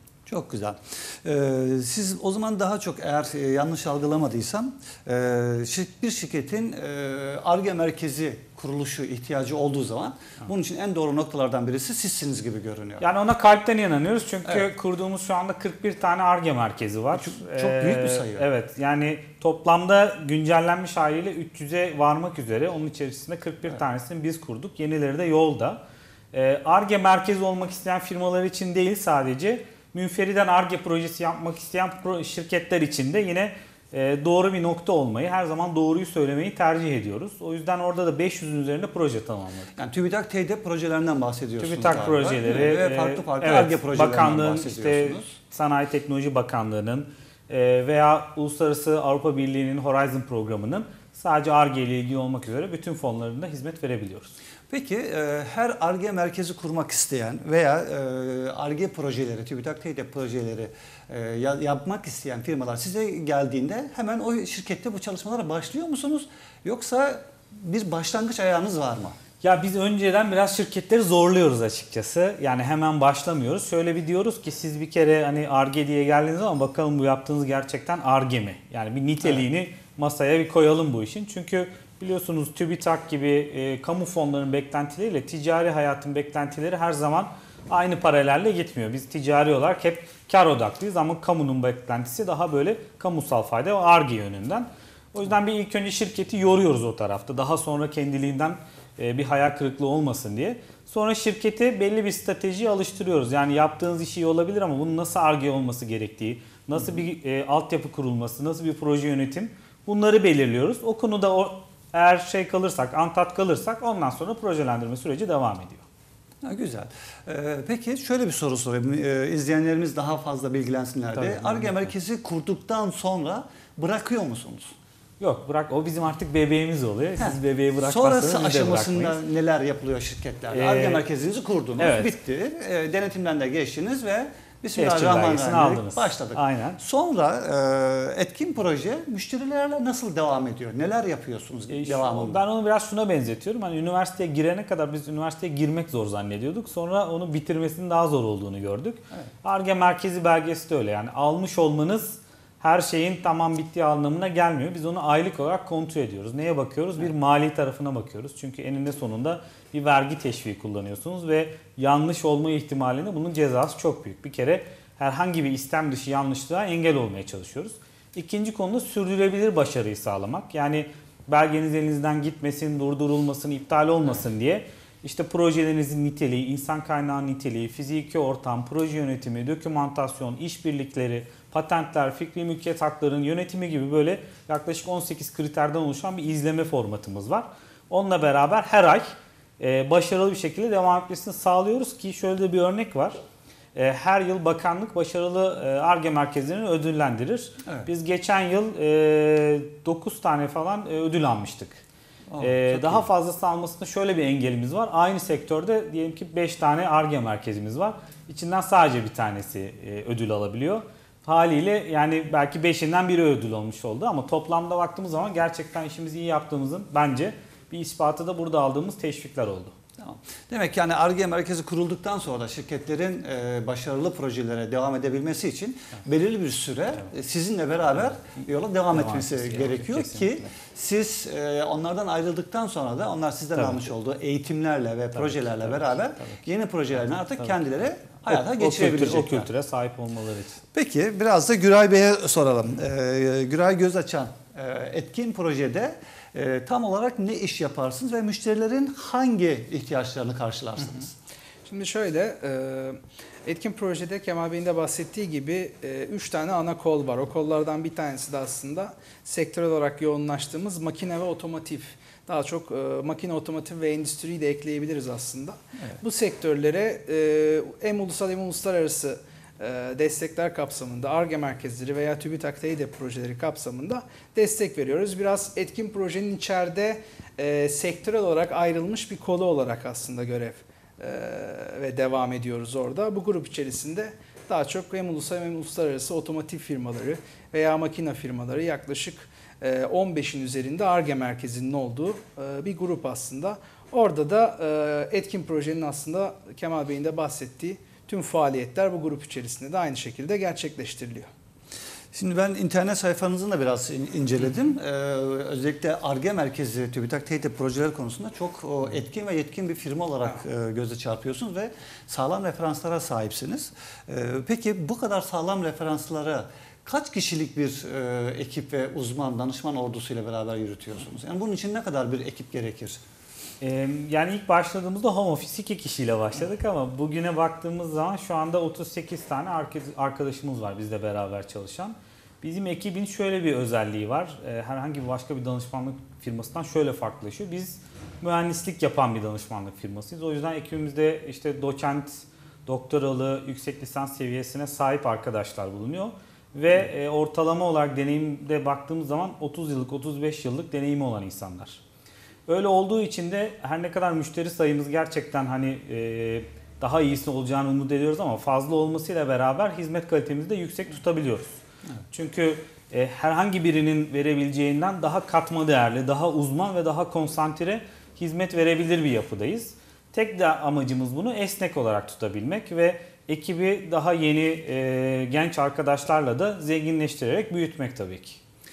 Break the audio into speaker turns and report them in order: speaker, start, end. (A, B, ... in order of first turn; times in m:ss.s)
0:00.3-0:13.0 A
0:13.0-0:25.8 B
0:17.1-0:18.5 A
0:26.3-0:39.8 B
0:39.8-0:45.3 A
0:41.6-0:54.3 B
0:54.7-1:09.2 A
1:09.4-1:55.8 B
1:56.4-2:04.7 A
2:01.1-2:01.9 B
2:05.2-2:09.2 B
2:07.2-2:22.4 A
2:10.5-2:11.1 B
2:11.8-2:12.2 B
2:14.8-2:16.8 B
2:21.7-3:09.1 B
3:09.6-3:13.2 B
3:13.8-3:21.8 B
3:22.3-3:23.1 A
3:22.4-3:39.8 B
3:40.0-3:59.5 A
3:48.9-3:50.5 B
3:53.6-3:53.8 B
3:55.2-3:56.4 B
3:58.3-4:00.6 B
4:00.7-4:11.1 A
4:11.7-5:01.3 C
5:02.1-5:23.0 A
5:23.6-5:51.8 B
5:52.5-6:01.6 B
6:02.1-6:18.4 B